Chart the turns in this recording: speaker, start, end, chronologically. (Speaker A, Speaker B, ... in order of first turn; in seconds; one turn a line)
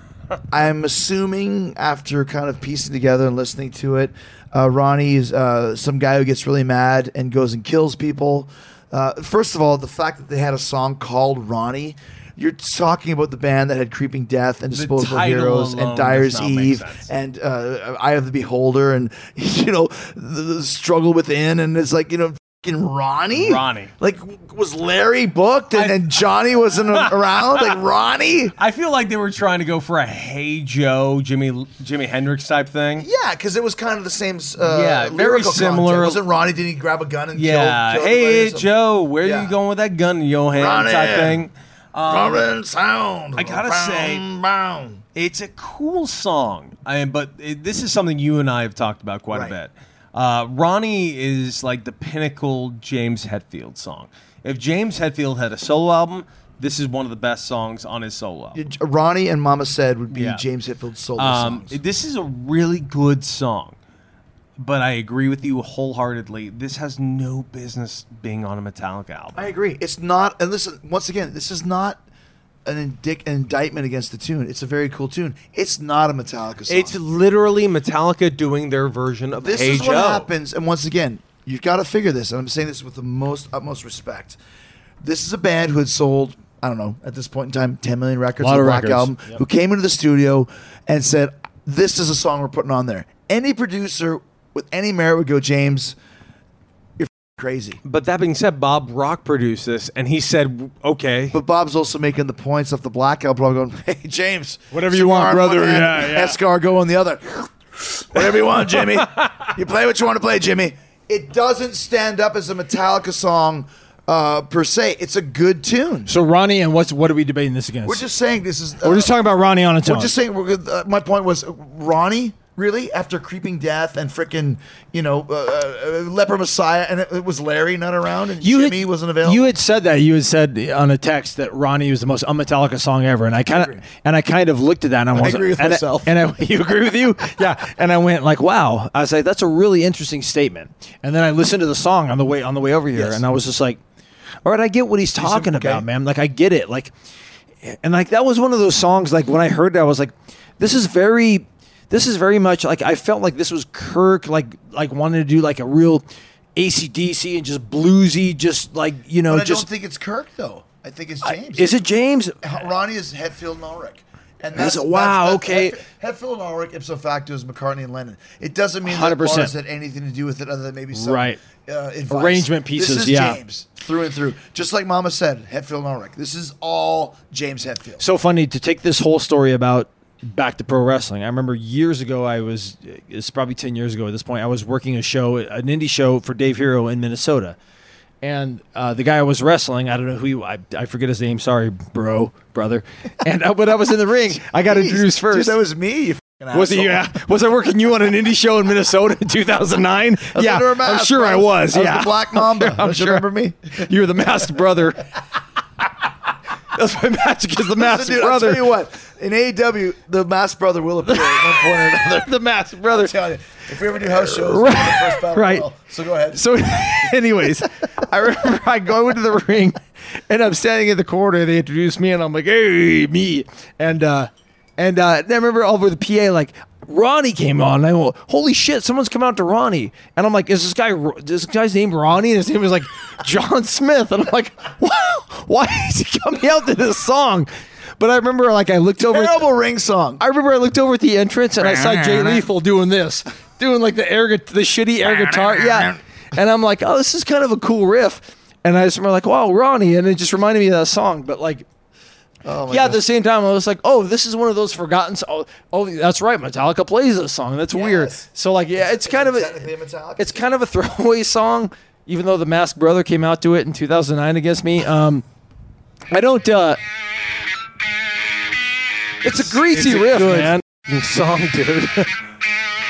Speaker A: 0.5-28.5
Speaker B: 14.7-17.1
Speaker B: 23.3-23.9
Speaker B: 25.7-26.0
Speaker B: 26.9-27.7
Speaker B: 28.6-33.1
Speaker A: 33.0-38.7
Speaker B: 34.6-36.2
Speaker B: 37.4-42.5
Speaker A: 39.2-39.5
Speaker A: 40.5-41.4
Speaker A: 42.1-45.0
Speaker B: 43.4-44.2
Speaker B: 45.1-58.6
Speaker A: 58.5-61.8
Speaker B: 60.1-60.4
Speaker B: 61.2-63.8
Speaker B: 64.6-69.4
Speaker A: 69.3-72.0
Speaker A: 72.6-77.0
Speaker B: 76.7-80.3
Speaker A: 79.4-84.4
Speaker A: 85.0-96.0
Speaker C: 88.4-89.4
Speaker A: 97.0-97.8
Speaker B: 97.8-101.3
Speaker A: 101.3-116.1
Speaker C: 104.7-106.4
Speaker C: 116.1-118.0
Speaker A: 117.8-119.1
Speaker C: 118.8-120.1
Speaker A: 119.8-129.5
Speaker C: 128.4-143.8
Speaker A: 133.5-133.8
Speaker A: 135.1-136.2
Speaker A: 142.9-143.2
Speaker C: 144.4-146.9
Speaker A: 145.2-145.9
Speaker C: 147.6-156.0
Speaker C: 156.6-159.7
Speaker A: 159.3-161.8
Speaker C: 161.2-162.4
Speaker A: 162.4-178.0
Speaker C: 164.5-165.8
Speaker C: 168.8-169.5
Speaker C: 170.9-171.4
Speaker C: 172.1-173.4
Speaker C: 178.0-187.6
Speaker C: 188.2-195.6
Speaker A: 194.5-197.0
Speaker C: 196.5-205.1
Speaker A: 200.3-203.9
Speaker C: 206.7-208.7
Speaker A: 207.8-216.4
Speaker C: 211.1-213.1
Speaker C: 214.0-215.7
Speaker C: 216.3-239.4
Speaker A: 239.1-240.2
Speaker C: 240.2-251.7
Speaker A: 241.6-242.4
Speaker A: 245.0-246.0
Speaker A: 252.4-253.0
Speaker C: 252.7-259.6
Speaker A: 257.7-260.4
Speaker C: 260.2-265.2
Speaker C: 266.1-266.8
Speaker C: 269.2-270.6
Speaker B: 269.5-272.1